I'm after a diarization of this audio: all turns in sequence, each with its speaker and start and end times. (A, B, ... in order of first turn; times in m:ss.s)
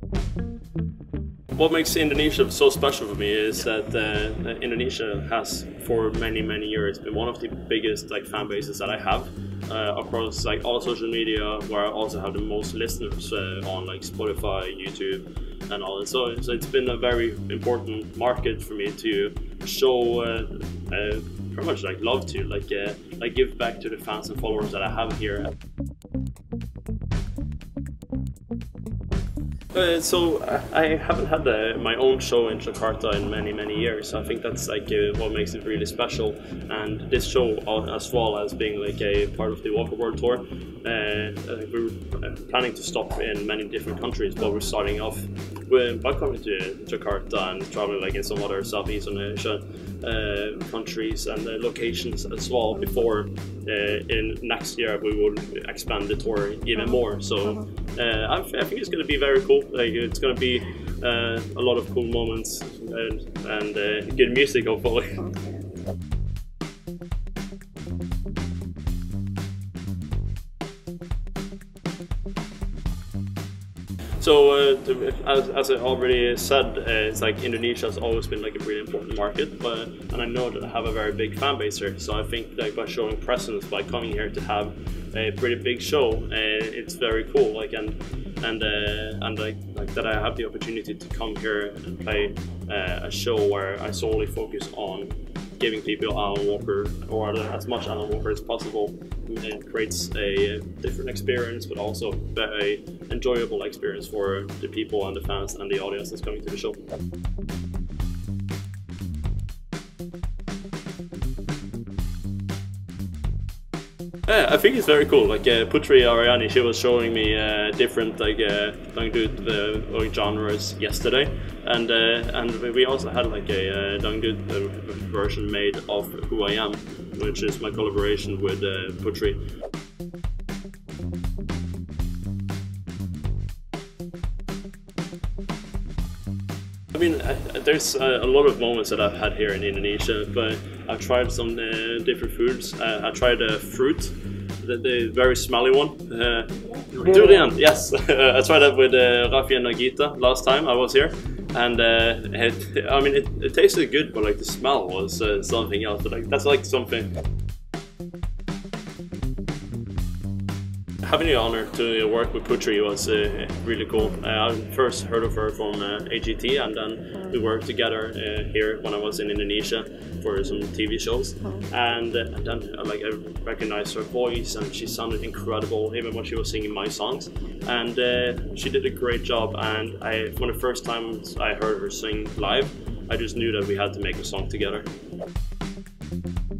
0:01.5-0:25.5 A
0:29.7-1:05.4 A
1:14.2-1:46.8 A
1:54.3-2:09.4 A
2:16.9-2:37.1 A
2:41.0-3:04.9 A